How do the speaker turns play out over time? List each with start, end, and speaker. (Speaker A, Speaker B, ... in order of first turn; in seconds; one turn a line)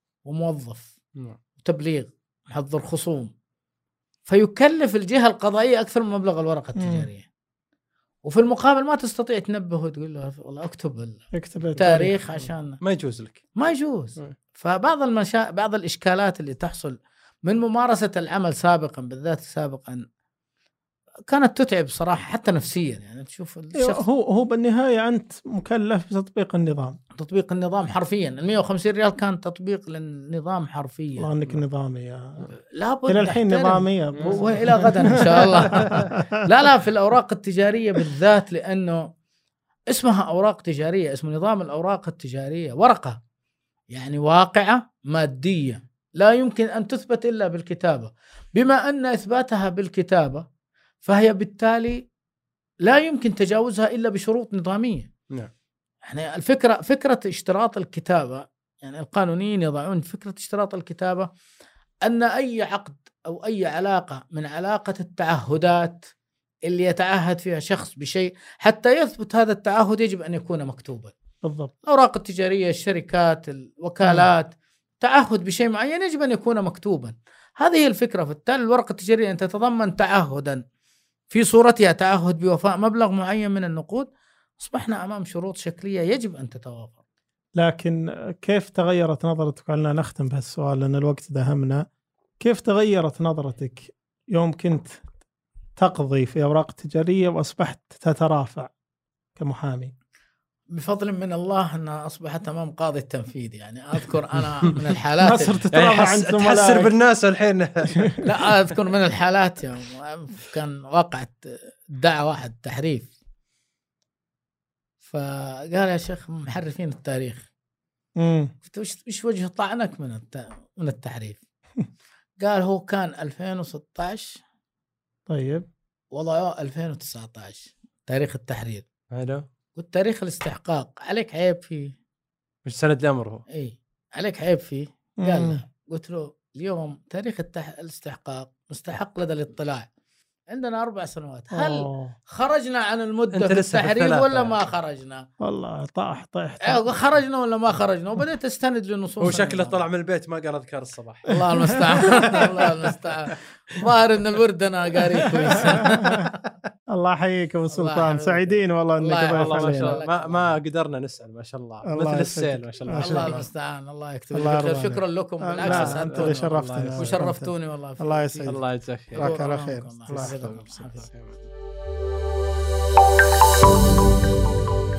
Speaker A: 0.2-0.9
Speaker A: 1.6-3.3
Speaker A: 4.3-7.3
Speaker B: 6.8-7.1
Speaker A: 8.2-12.8
Speaker B: 11.3-12.1
Speaker C: 12.8-13.4
Speaker A: 13.6-20.0
Speaker A: 21.3-24.0
Speaker B: 23.8-27.0
Speaker A: 27.1-31.3
Speaker B: 31.2-32.5
Speaker A: 32.5-39.1
Speaker B: 33.1-36.4
Speaker C: 34.1-34.8
Speaker C: 35.6-36.0
Speaker A: 39.9-43.2
Speaker A: 43.9-50.5
Speaker A: 51.0-52.0
Speaker A: 52.8-55.1
Speaker A: 56.0-61.3
Speaker A: 62.0-66.1
Speaker A: 66.7-71.1
Speaker B: 71.4-71.7
Speaker A: 71.8-80.6
Speaker B: 74.0-74.3
Speaker A: 81.3-87.0
Speaker B: 87.6-91.8
Speaker B: 92.4-95.0
Speaker B: 95.8-98.7
Speaker B: 99.3-99.9
Speaker A: 100.7-105.7
Speaker B: 105.2-106.9
Speaker C: 105.7-108.1
Speaker A: 108.2-113.1
Speaker A: 115.0-117.5
Speaker B: 118.2-118.5
Speaker A: 118.6-121.4
Speaker A: 122.4-124.4
Speaker B: 125.3-125.7
Speaker A: 126.1-128.8
Speaker C: 129.1-129.4
Speaker A: 129.8-131.9
Speaker C: 132.6-133.4
Speaker A: 133.5-139.9
Speaker B: 135.2-135.6
Speaker A: 140.5-145.3
Speaker B: 141.5-142.1
Speaker C: 143.3-144.7
Speaker B: 145.4-146.8
Speaker A: 146.7-149.8
Speaker C: 149.2-152.6
Speaker A: 151.3-156.3
Speaker B: 152.0-152.4
Speaker B: 155.5-156.3
Speaker B: 156.9-160.0
Speaker A: 157.7-160.5
Speaker C: 159.4-163.5
Speaker B: 161.8-163.3
Speaker A: 162.9-168.6
Speaker B: 164.3-170.6
Speaker C: 165.6-167.1
Speaker C: 168.4-169.3
Speaker A: 169.2-171.1
Speaker C: 170.1-171.4